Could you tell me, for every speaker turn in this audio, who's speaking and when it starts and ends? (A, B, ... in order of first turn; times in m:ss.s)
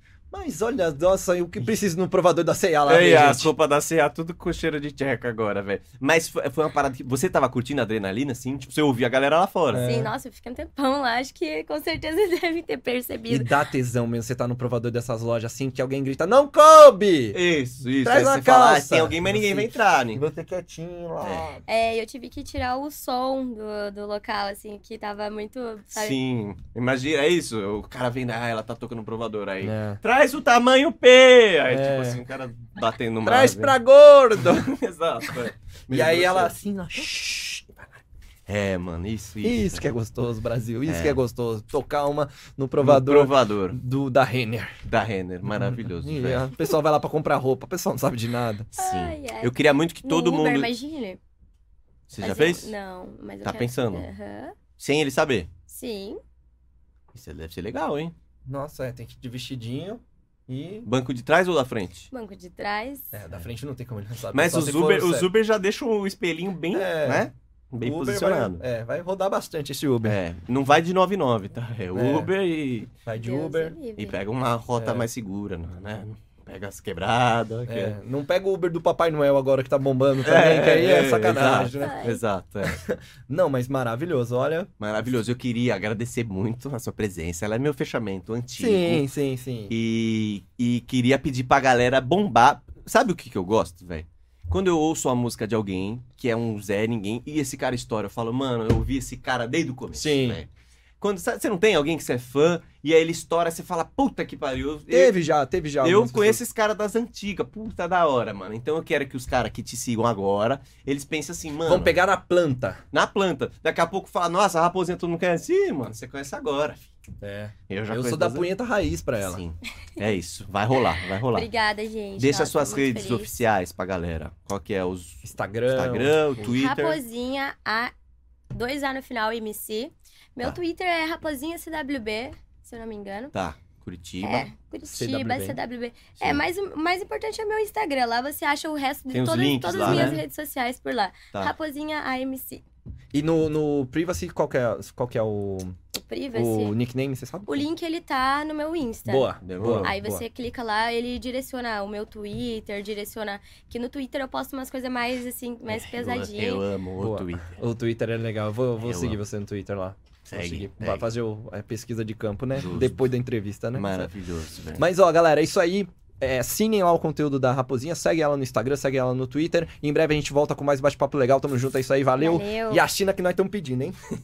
0:00.3-0:03.5 A
0:02.9-0:09.9 B
0:09.7-0:10.1 A
0:09.8-0:13.5 C
0:13.3-0:17.4 A
0:17.3-0:20.2 B
0:18.0-0:21.6 A
0:21.2-0:21.5 B
0:21.7-0:26.2 C
0:25.9-0:33.8 B
0:29.6-0:30.0 A
0:31.7-0:32.2 A
0:33.2-0:34.7 A
0:34.4-0:36.6 B
0:35.9-0:37.7 A
0:38.5-0:39.9 B
0:39.4-0:44.8 A
0:40.9-0:41.2 B
0:42.8-0:43.8 B
0:44.8-0:46.5 B
0:45.5-0:48.7 A
0:48.8-0:50.7 B
0:48.8-0:51.2 C
0:52.1-0:52.7 B
0:52.2-0:54.6 C
0:53.4-0:54.1 B
0:54.8-0:55.5 B
0:55.7-0:56.2 C
0:57.1-0:58.1 B
0:58.5-1:00.9 A
1:00.8-1:02.1 B
1:02.1-1:03.1 C
1:03.1-1:05.3 A
1:04.3-1:08.6 B
1:06.7-1:07.3 A
1:07.8-1:10.2 A
1:10.0-1:12.9 B
1:11.9-1:12.3 A
1:13.0-1:13.8 A
1:13.2-1:14.2 C
1:14.0-1:18.0 B
1:14.8-1:15.1 A
1:17.7-1:22.0 A
1:20.2-1:22.8 B
1:21.8-1:22.2 C
1:22.6-1:24.7 A
1:24.8-1:29.0 B
1:28.6-1:29.7 A
1:29.7-1:40.5 B
1:39.9-1:40.4 A
1:41.0-1:45.2 B
1:44.9-1:46.4 A
1:45.8-1:52.0 B
1:51.7-1:52.8 A
1:52.9-1:56.9 B
1:57.2-1:59.4 A
1:57.7-1:58.5 B
1:59.2-2:01.5 B
2:01.3-2:03.3 C
2:02.2-2:07.0 B
2:05.2-2:06.5 A
2:06.4-2:07.9 C
2:08.5-2:13.3 C
2:13.3-2:14.5 B
2:14.2-2:22.6 C
2:14.9-2:15.6 A
2:19.1-2:20.2 B
2:19.8-2:20.2 A
2:23.1-2:25.8 A
2:25.9-2:26.7 C
2:26.3-2:27.7 A
2:27.5-2:36.6 C
2:29.1-2:30.2 A
2:29.4-2:30.0 B
2:35.7-2:37.6 B
2:37.0-2:44.1 A
2:38.8-2:39.2 B
2:40.3-2:41.1 B
2:42.6-2:43.0 B
2:43.8-2:44.8 B
2:44.8-2:54.0 A
2:52.2-2:52.8 C